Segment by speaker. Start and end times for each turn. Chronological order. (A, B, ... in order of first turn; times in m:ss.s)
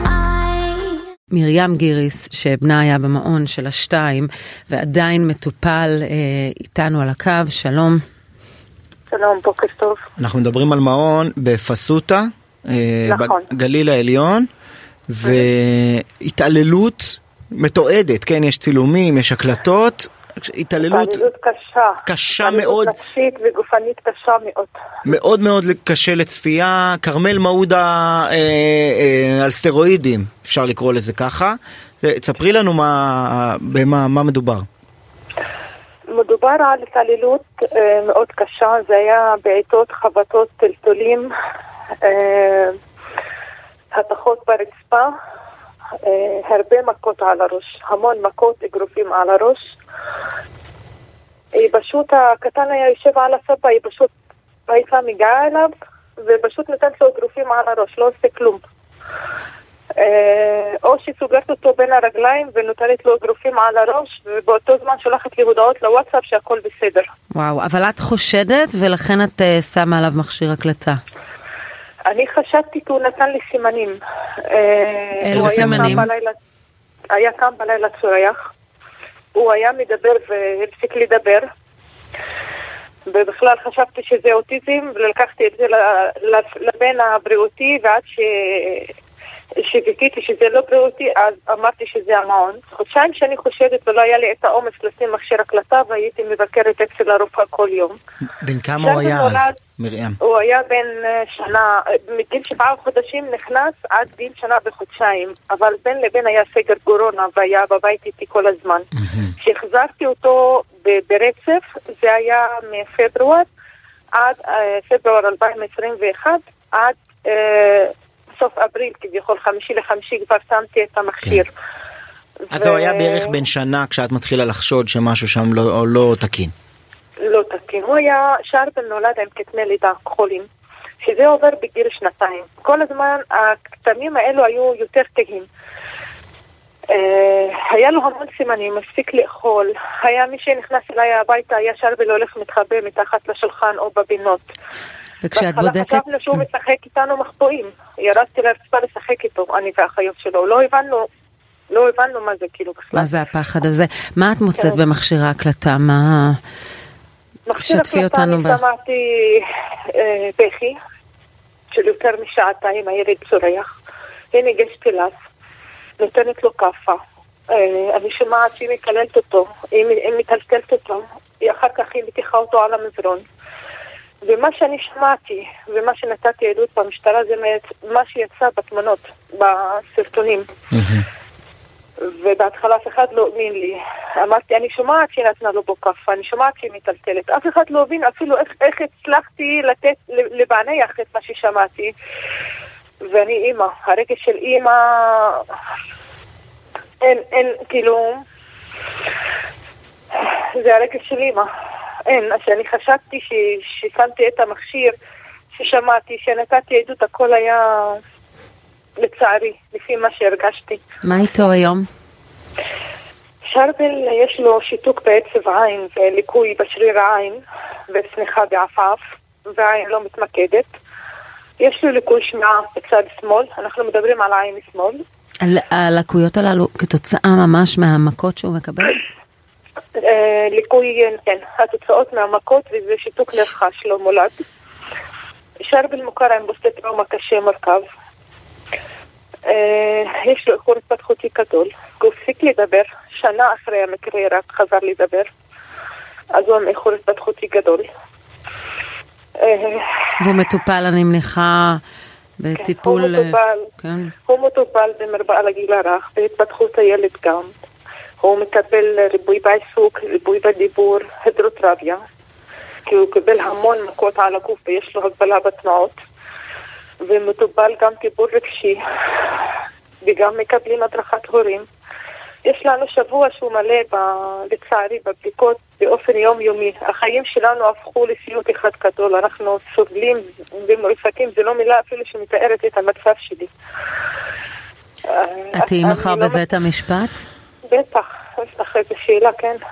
0:01.3-0:08.0 A
0:09.1-0:10.0 B
0:10.2-0:14.5 C
0:13.1-0:13.5 B
0:15.1-0:21.2 C
0:15.2-0:15.5 B
0:20.8-0:24.8 B
0:22.0-0:23.0 C
0:25.1-0:34.6 C
0:36.1-0:41.3 B
0:42.0-0:42.8 B
0:43.9-0:45.1 B
0:46.0-0:49.6 B
0:51.6-0:54.1 B
0:54.7-0:55.7 B
0:56.2-0:58.6 B
1:00.0-1:07.1 B
1:07.4-1:11.0 A
1:12.1-1:16.4 B
1:15.2-1:16.1 A
1:15.3-1:16.1 C
1:17.1-1:18.4 B
1:19.4-1:21.4 B
1:23.1-1:28.9 B
1:29.6-1:38.0 B
1:38.4-1:40.2 C
1:38.8-1:39.6 B
1:40.2-1:53.5 B
1:49.0-1:49.3 C
1:54.2-2:01.5 B
2:02.5-2:03.4 B
2:02.5-2:06.5 C
2:07.2-2:10.5 B
2:11.0-2:15.5 B
2:16.9-2:24.5 B
2:25.2-2:26.4 A
2:25.4-2:31.1 B
2:31.7-2:33.1 B
2:32.9-2:36.4 A
2:34.6-2:34.8 B
2:37.5-2:40.8 B
2:37.6-2:38.6 A
2:41.7-2:43.7 B
2:44.3-2:45.1 B
2:46.0-2:47.0 B
2:47.5-2:53.2 B
2:54.2-3:00.5 B
3:00.7-3:01.0 C
3:02.0-3:11.9 B
3:13.1-3:15.5 B
3:17.0-3:18.2 B
3:20.2-3:21.5 B
3:22.1-3:24.9 B
3:25.5-3:28.0 B
3:29.0-3:30.8 B
3:31.0-3:31.8 A
3:33.5-3:39.0 B
3:39.6-3:40.7 B
3:41.6-3:45.0 B
3:45.4-3:49.0 A
3:50.0-3:54.4 B
3:55.6-3:57.8 B
3:59.5-4:05.3 B
4:06.3-4:07.9 B
4:09.4-4:10.1 B
4:10.2-4:11.8 A
4:12.4-4:14.1 A
4:12.6-4:13.7 B
4:14.3-4:17.5 B
4:18.2-4:22.0 B
4:22.9-4:26.0 B
4:27.0-4:28.8 B
4:30.0-4:31.7 B
4:32.5-4:43.5 B
4:45.1-4:46.5 B
4:45.5-4:47.2 A
4:47.7-4:49.6 B